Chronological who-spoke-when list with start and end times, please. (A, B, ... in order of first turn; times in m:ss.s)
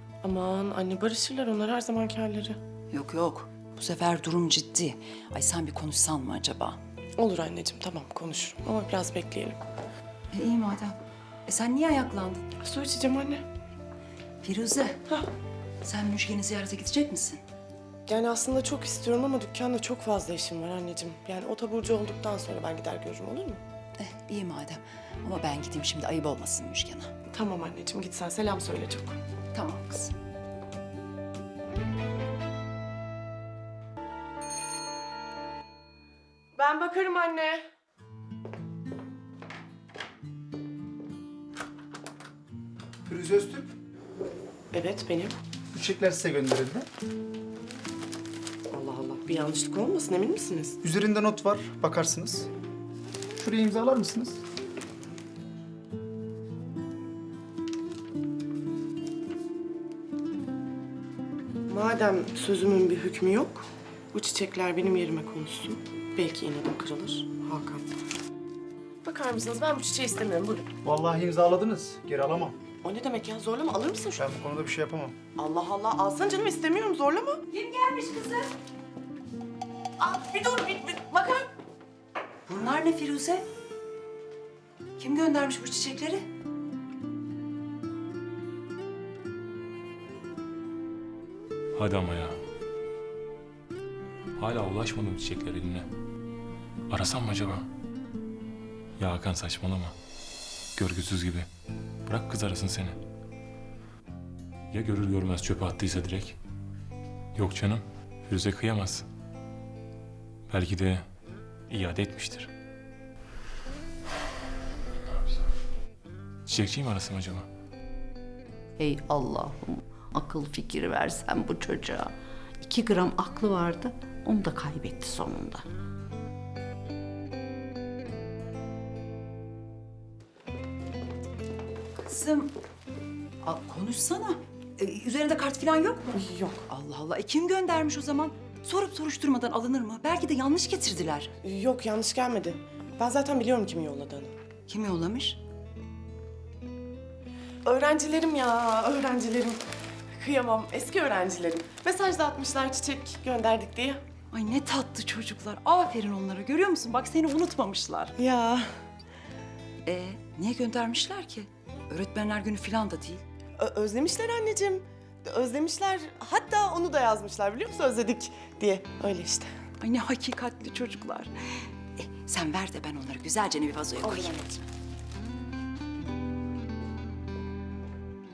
0:00.2-0:02.6 A
0:02.9-0:06.8 B
0:07.2-0:09.6 A
0:10.3-0:12.4 B
0:12.6-0:13.4 A
0:14.4-0:15.0 B
0:15.8-0:17.4 B
0:18.1-0:23.6 A
0:24.0-0:27.1 B
0:27.3-0:29.2 A
0:29.5-0:30.1 B
0:36.6-0:37.6 A
0:43.1-0:43.7 C
0:44.7-0:45.3 A
0:45.7-0:46.9 C
0:48.7-0:50.8 A
0:50.8-0:52.5 C
0:53.4-0:54.4 C
1:01.7-1:07.9 A
1:09.0-1:10.7 A
1:10.8-1:12.6 C
1:12.8-1:14.2 A
1:14.2-1:15.2 C
1:15.4-1:17.4 A
1:17.5-1:18.5 B
1:20.0-1:21.5 B
1:22.5-1:23.4 B
1:25.0-1:26.2 B
1:31.8-1:32.4 D
1:34.4-1:35.9 D
1:36.9-1:37.7 D
1:39.0-1:40.0 D
1:40.8-1:41.5 D
1:42.1-1:43.0 D
1:44.7-1:46.4 D
1:47.4-1:49.1 D
1:50.5-1:51.1 D
1:51.7-1:52.5 D
1:56.5-1:57.5 D
1:58.8-2:02.1 E
2:02.6-2:05.6 E
2:12.0-2:12.5 B
2:13.4-2:16.2 B
2:16.1-2:16.6 A
2:16.7-2:21.3 B
2:21.4-2:24.4 A
2:24.7-2:25.4 B
2:27.6-2:29.6 A
2:30.1-2:34.0 A
2:34.3-2:38.2 B
2:38.2-2:38.7 A
2:39.8-2:43.2 B
2:43.6-2:49.5 A
2:49.8-2:54.4 B
2:54.0-2:54.6 A